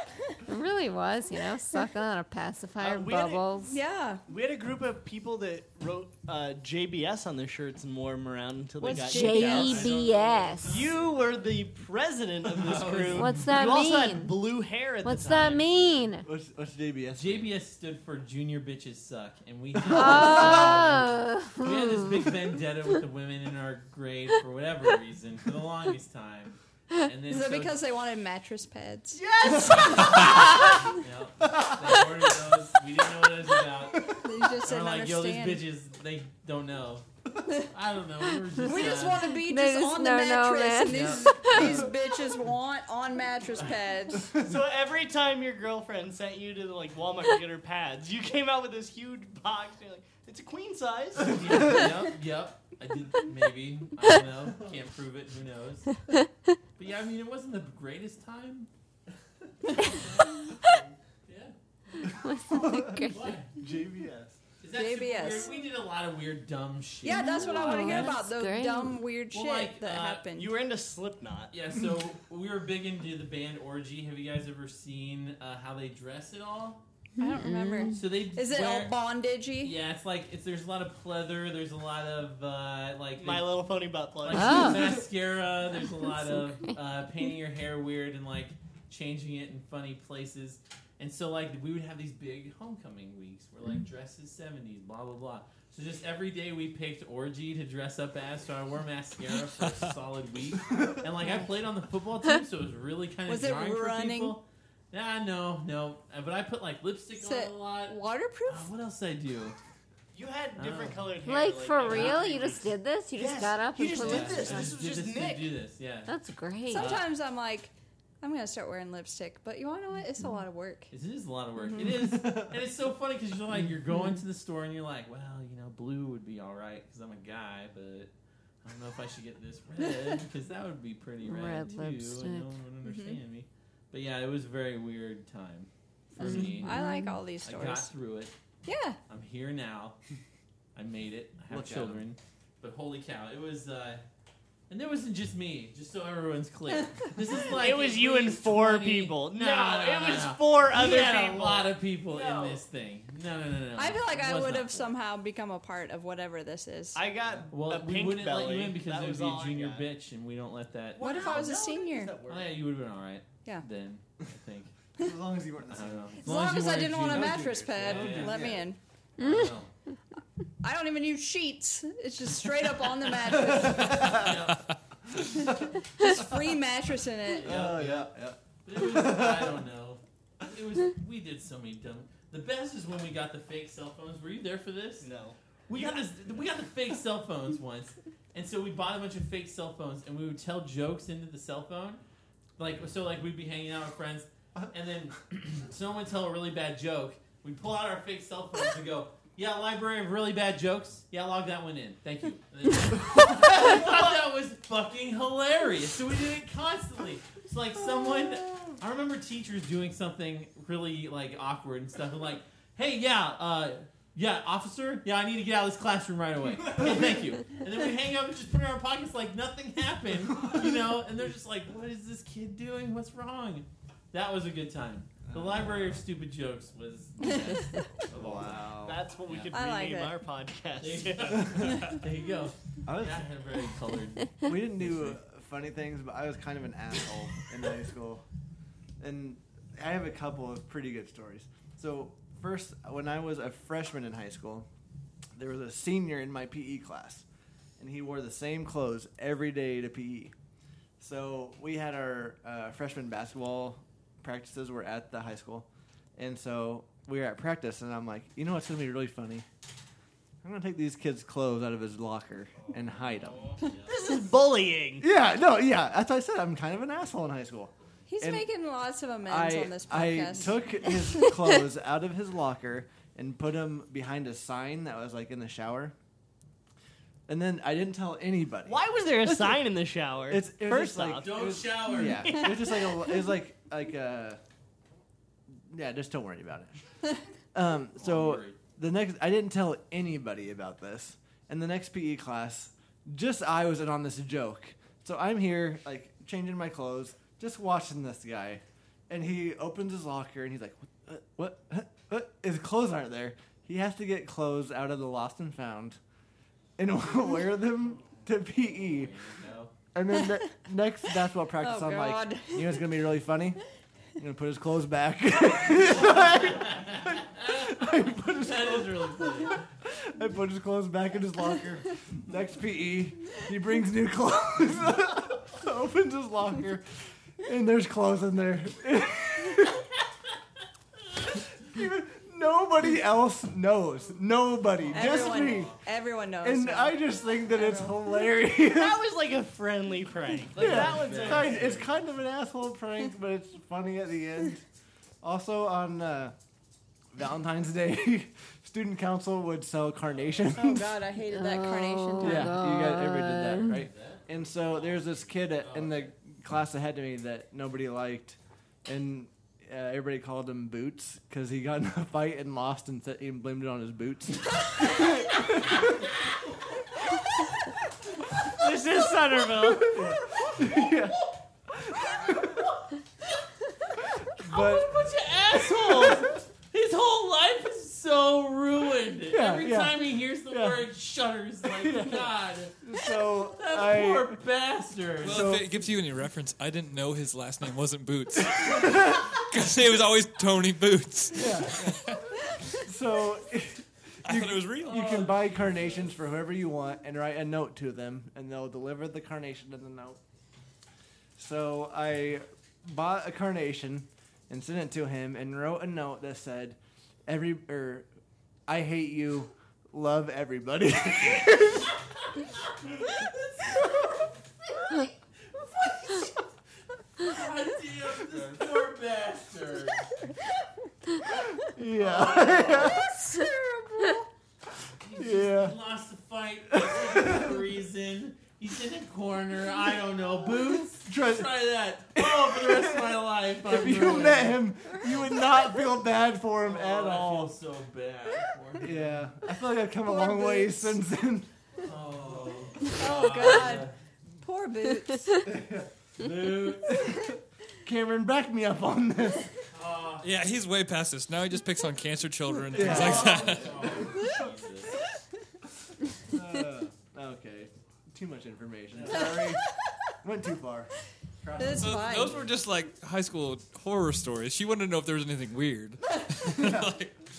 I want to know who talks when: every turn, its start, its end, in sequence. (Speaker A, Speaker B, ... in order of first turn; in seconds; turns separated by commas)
Speaker A: 0.5-3.8, Speaker B: 2.8-3.5, Speaker C: 3.7-4.2, Speaker B: 4.3-9.8, Speaker C: 8.8-10.0, Speaker A: 9.0-10.8, Speaker D: 9.3-11.5, Speaker B: 10.7-15.7, Speaker D: 12.6-13.4, Speaker A: 13.1-14.4, Speaker A: 15.0-16.3, Speaker E: 16.2-17.5, Speaker D: 17.1-27.8, Speaker A: 19.8-22.3, Speaker E: 20.0-20.9, Speaker C: 27.3-30.2, Speaker B: 29.1-30.7, Speaker D: 30.0-34.1, Speaker E: 31.4-32.1, Speaker E: 33.9-34.3, Speaker C: 34.2-35.6, Speaker D: 34.6-37.1, Speaker D: 37.7-39.3, Speaker C: 38.6-44.3, Speaker A: 38.7-41.8, Speaker D: 40.9-41.7, Speaker B: 44.4-52.0, Speaker D: 51.2-56.0, Speaker D: 56.8-58.7, Speaker D: 59.8-62.1, Speaker A: 62.1-63.4, Speaker E: 62.5-63.0, Speaker D: 63.1-63.5, Speaker E: 63.6-64.1, Speaker B: 64.0-64.3, Speaker D: 64.6-68.1, Speaker C: 64.7-65.7, Speaker C: 67.0-70.5, Speaker A: 67.3-69.1, Speaker D: 69.3-70.2, Speaker B: 70.3-71.5, Speaker D: 71.5-76.8, Speaker A: 77.2-78.0, Speaker C: 77.2-79.7, Speaker D: 77.9-79.0, Speaker D: 79.6-83.6, Speaker B: 83.2-84.8, Speaker D: 84.2-109.6, Speaker A: 84.3-85.0, Speaker A: 85.8-86.7, Speaker F: 99.6-99.8, Speaker C: 103.3-104.4, Speaker C: 107.2-108.7, Speaker B: 110.1-112.6, Speaker D: 110.6-111.2, Speaker A: 111.2-114.7, Speaker D: 111.8-112.6, Speaker B: 113.2-115.5, Speaker D: 114.0-116.1, Speaker A: 116.1-117.0, Speaker C: 116.7-120.9, Speaker D: 116.7-117.1, Speaker D: 120.9-128.1, Speaker E: 121.8-122.6, Speaker D: 128.6-136.8, Speaker A: 131.2-132.5, Speaker C: 132.8-133.2, Speaker C: 136.2-137.9, Speaker A: 136.2-137.2, Speaker D: 137.4-138.3, Speaker C: 138.7-139.0, Speaker D: 139.1-140.0, Speaker D: 140.8-144.0, Speaker E: 141.5-142.0, Speaker D: 144.7-154.9, Speaker B: 147.5-152.6, Speaker C: 153.8-157.0, Speaker B: 156.9-159.9, Speaker D: 157.5-161.6, Speaker B: 161.0-162.6, Speaker C: 161.0-162.2, Speaker D: 162.2-164.7, Speaker E: 165.0-166.3, Speaker D: 165.7-168.6, Speaker C: 166.2-168.8, Speaker E: 167.1-168.6, Speaker A: 169.2-169.6, Speaker D: 169.2-169.7, Speaker C: 170.6-174.2, Speaker E: 173.3-174.4, Speaker D: 173.6-174.6, Speaker C: 176.0-177.5, Speaker D: 177.3-178.1, Speaker E: 177.4-179.7, Speaker D: 178.6-185.1, Speaker B: 185.0-186.2, Speaker D: 185.7-192.0, Speaker D: 192.6-228.7, Speaker E: 225.3-226.0, Speaker C: 227.2-227.6, Speaker E: 228.1-229.0, Speaker B: 228.8-231.6, Speaker D: 229.2-229.5, Speaker C: 229.5-230.2, Speaker D: 230.8-235.2, Speaker E: 232.9-233.3, Speaker E: 234.4-238.2, Speaker E: 239.0-244.7, Speaker E: 245.4-247.2, Speaker E: 247.8-250.3, Speaker E: 251.0-259.5, Speaker E: 260.4-263.6, Speaker D: 263.4-263.9, Speaker B: 263.9-265.1, Speaker E: 265.0-268.5, Speaker C: 268.1-270.6, Speaker E: 269.3-275.9, Speaker E: 277.3-279.6, Speaker B: 278.7-281.4, Speaker E: 280.3-284.4, Speaker D: 281.2-282.5, Speaker E: 285.6-286.8, Speaker E: 287.5-306.0, Speaker D: 288.0-288.6, Speaker E: 306.8-309.1, Speaker D: 308.7-309.7, Speaker E: 309.9-313.6, Speaker C: 311.6-312.8, Speaker E: 314.2-326.8, Speaker D: 316.7-317.7, Speaker D: 318.3-319.6, Speaker E: 327.4-329.9, Speaker E: 331.6-335.8, Speaker D: 334.8-335.8, Speaker C: 334.9-338.0, Speaker E: 336.4-339.0, Speaker B: 338.6-341.7, Speaker D: 340.6-341.9, Speaker E: 340.6-344.6, Speaker E: 345.2-346.4, Speaker E: 347.1-350.9, Speaker C: 350.6-352.5, Speaker A: 351.3-353.8, Speaker E: 352.2-366.0, Speaker D: 353.7-356.1, Speaker B: 368.5-370.0, Speaker E: 369.6-371.2, Speaker D: 370.4-371.2, Speaker E: 371.7-372.6, Speaker D: 372.1-372.7, Speaker E: 374.4-375.1, Speaker D: 374.4-385.6, Speaker E: 375.9-376.2, Speaker E: 379.3-380.9, Speaker E: 381.7-382.3, Speaker E: 382.8-384.4, Speaker F: 385.2-392.2, Speaker E: 385.2-385.8, Speaker E: 388.6-389.2, Speaker E: 391.3-392.2, Speaker E: 392.7-400.2, Speaker F: 394.2-395.4, Speaker E: 401.4-408.1, Speaker E: 408.7-411.9, Speaker D: 412.2-416.5, Speaker D: 417.2-420.1, Speaker E: 421.7-423.2, Speaker D: 422.0-423.1, Speaker C: 422.8-424.2, Speaker D: 425.0-434.7, Speaker E: 425.2-425.8, Speaker E: 426.7-427.6, Speaker E: 431.1-431.5, Speaker E: 432.1-437.6, Speaker D: 436.6-439.2, Speaker E: 438.8-441.5, Speaker C: 440.1-440.9, Speaker D: 441.8-443.9, Speaker C: 442.8-445.5, Speaker E: 445.5-449.5, Speaker D: 446.2-446.9, Speaker D: 449.7-450.3, Speaker F: 450.2-454.0, Speaker E: 452.7-454.4, Speaker D: 452.7-455.0, Speaker E: 456.3-459.6, Speaker D: 458.9-459.3, Speaker C: 459.1-459.7, Speaker E: 460.2-460.9, Speaker E: 461.4-462.5, Speaker C: 461.6-462.5, Speaker F: 461.8-467.1, Speaker E: 466.4-466.9